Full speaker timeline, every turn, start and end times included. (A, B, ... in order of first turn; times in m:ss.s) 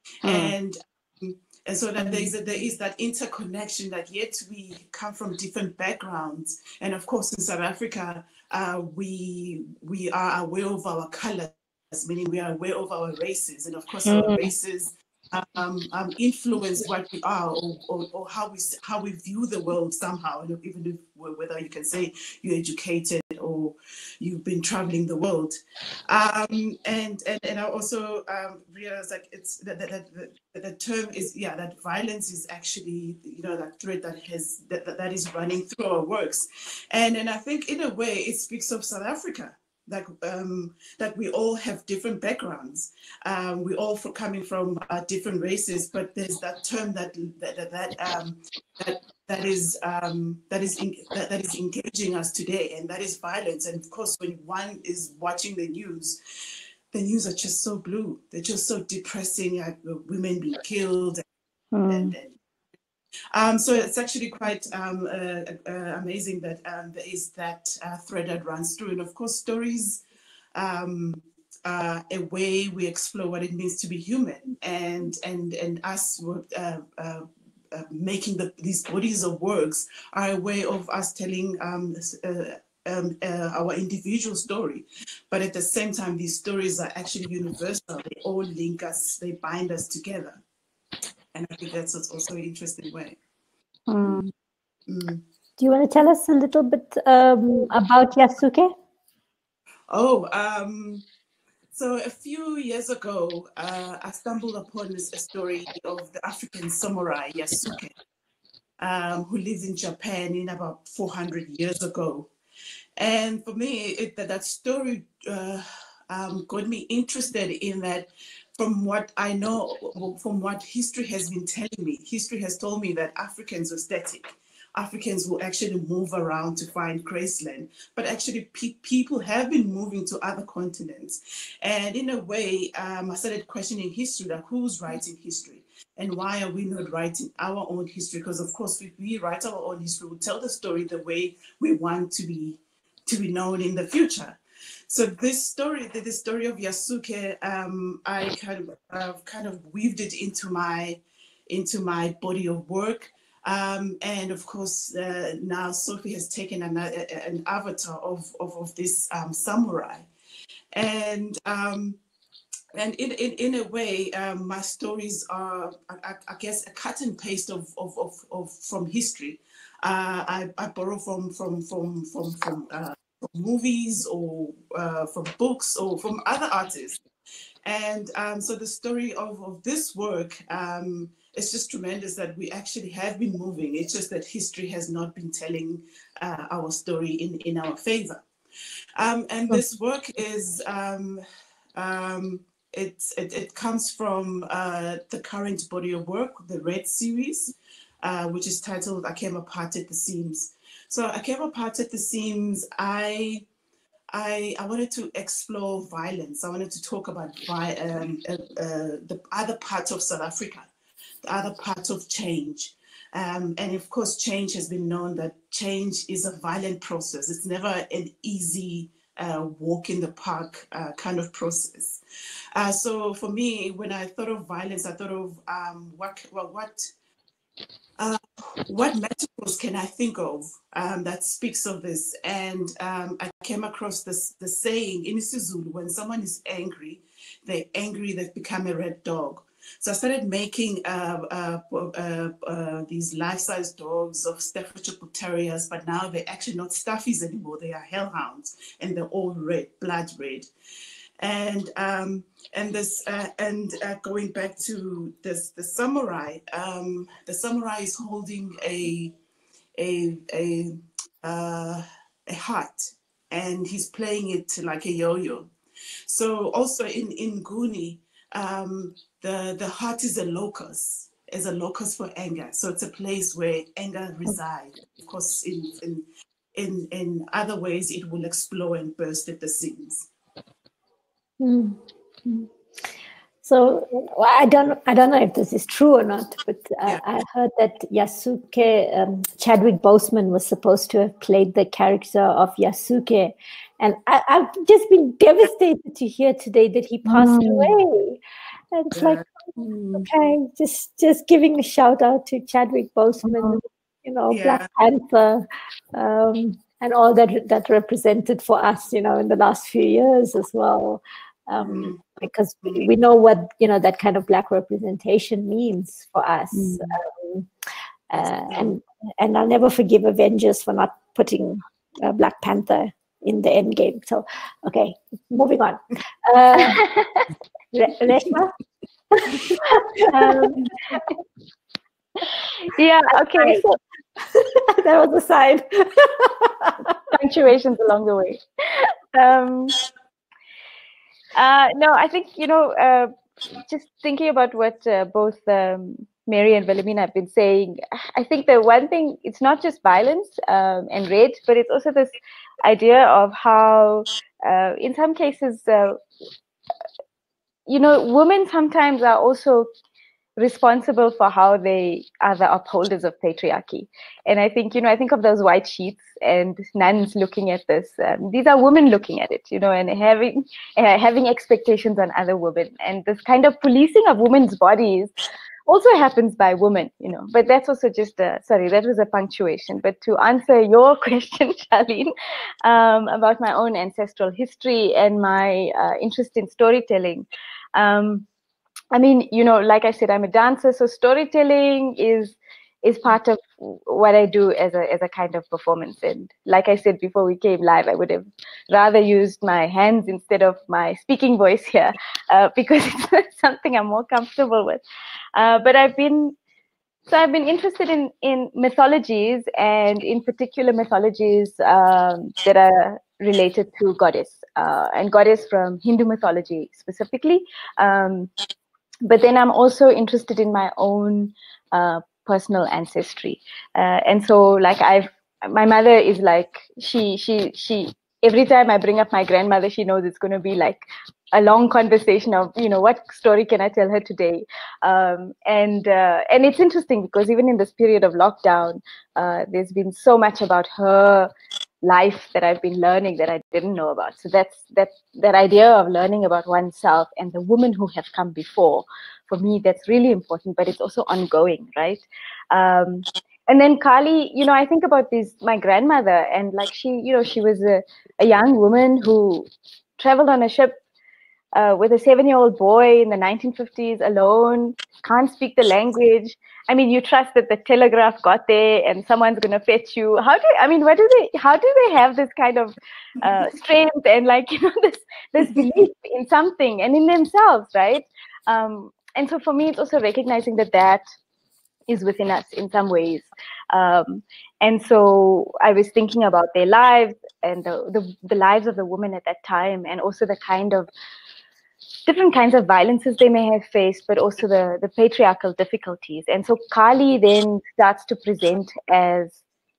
0:00.2-0:25.6 A
0:00.2-0:00.5 B
0:14.1-0:14.5 B
0:26.1-0:56.2 A
0:56.9-1:01.2 A
1:01.7-1:02.1 B
1:01.9-1:02.4 A
1:03.3-1:10.0 A
1:10.6-1:30.4 A
1:31.3-1:33.2 A
1:33.9-1:34.3 B
1:34.0-1:34.3 A
1:34.9-1:35.2 A
1:35.6-1:38.7 C
1:39.9-1:41.0 A
1:41.7-1:47.9 A
1:48.8-1:52.3 A
1:53.0-2:40.1 A
2:40.7-2:42.0 A
2:42.8-2:57.0 A
2:57.6-3:08.2 A
3:09.0-3:11.2 A
3:11.8-3:23.4 A
3:24.1-3:30.7 A
3:31.2-3:42.0 A
3:42.6-3:46.9 A
3:48.0-4:10.5 A
4:11.2-4:19.1 A
4:19.8-4:25.5 A
4:26.1-4:40.1 A
4:41.4-4:42.5 C
4:43.4-4:58.2 C
4:57.1-4:57.8 B
4:58.7-4:59.2 C
4:58.9-5:00.1 A
5:00.0-5:17.5 C
5:04.3-5:04.7 A
5:11.6-5:12.0 A
5:18.1-5:26.9 C
5:26.8-5:27.1 B
5:27.7-5:28.6 C
5:29.1-5:30.7 C
5:30.0-5:30.7 B
5:32.7-5:33.7 B
5:33.3-5:33.8 C
5:34.3-5:36.9 C
5:37.1-5:39.8 B
5:41.4-5:56.0 B
5:57.7-5:59.7 B
6:00.4-6:15.1 B
6:15.7-6:22.1 B
6:22.6-6:28.3 B
6:28.9-6:44.8 B
6:45.4-6:46.4 B
6:47.1-6:58.3 B
6:59.0-7:21.3 B
7:21.8-7:40.8 B
7:41.5-8:01.0 B
8:01.9-8:10.9 B
8:12.1-8:19.4 B